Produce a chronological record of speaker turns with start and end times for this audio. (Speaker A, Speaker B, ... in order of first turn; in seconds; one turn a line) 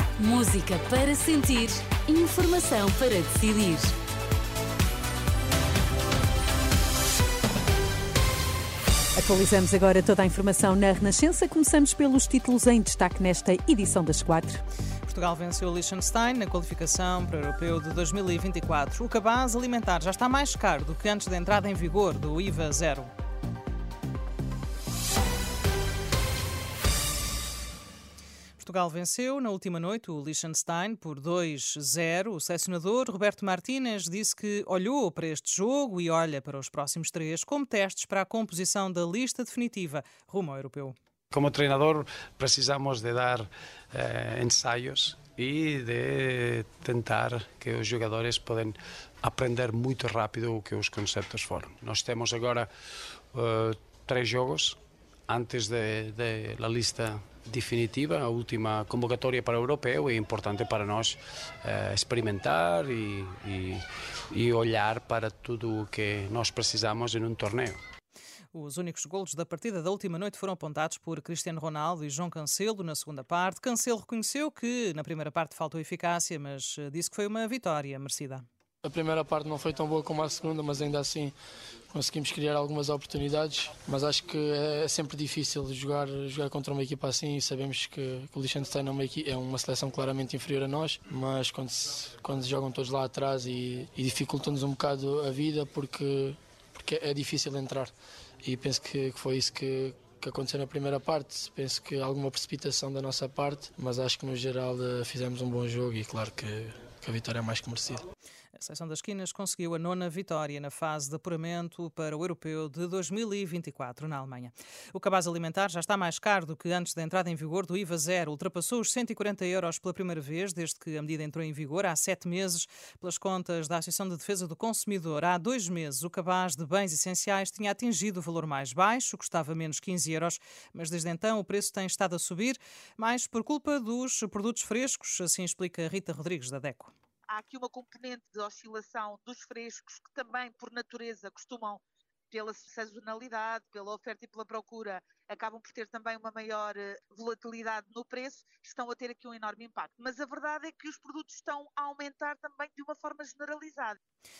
Speaker A: 0.2-3.9
Speaker B: 9.2-14.6
Speaker C: 15.1-23.1
Speaker C: 28.6-40.9
Speaker D: 41.3-52.7
Speaker D: 53.3-54.8
Speaker D: 55.3-67.8
Speaker C: 68.5-78.4
Speaker E: 78.8-81.3
Speaker E: 81.9-108.0
Speaker C: 108.6-136.9
Speaker F: 137.3-154.0